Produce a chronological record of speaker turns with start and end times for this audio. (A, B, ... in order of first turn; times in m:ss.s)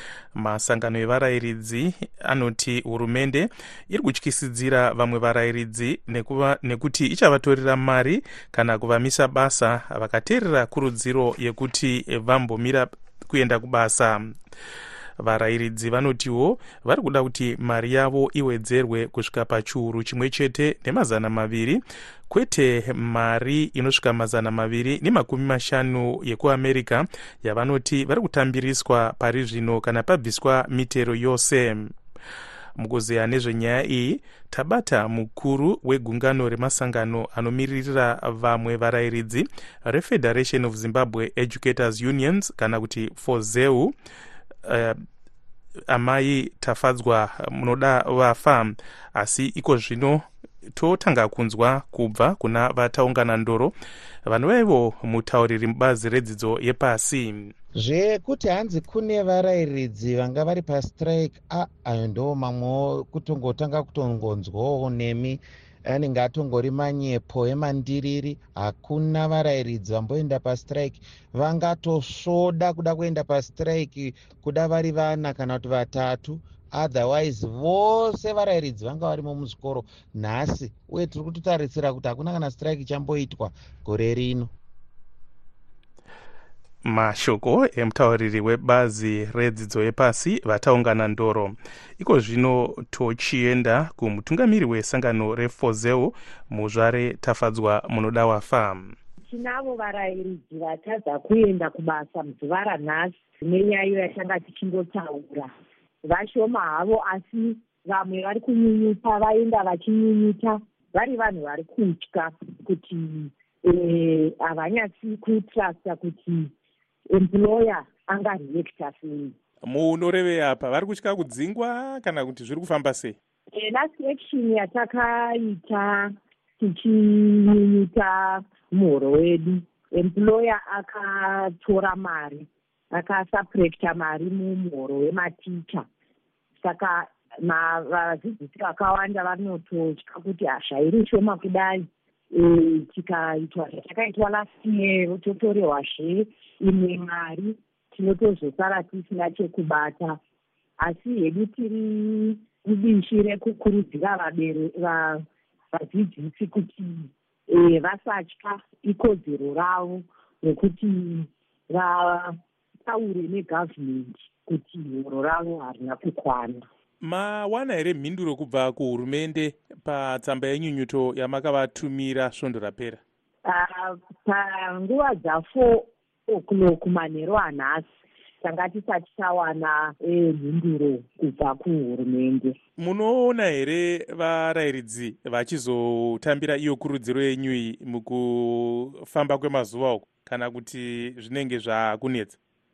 0:00.3-0:14.3 A
0:15.2-0:31.9 A
0:32.8-0:43.9 A
0:44.6-0:45.0 A
0:45.9-0:53.7 A
0:54.2-0:57.5 A
0:57.8-1:24.5 B
1:26.8-1:38.9 A
1:39.2-1:45.5 C
1:46.0-1:56.5 C
1:57.1-1:59.3 C
1:59.6-2:03.2 A
2:03.5-2:15.8 C
2:16.6-2:30.2 C
2:30.8-2:46.6 C
2:47.0-2:53.0 A
2:53.4-2:57.8 C
2:58.4-3:02.6 C
3:02.8-3:12.4 A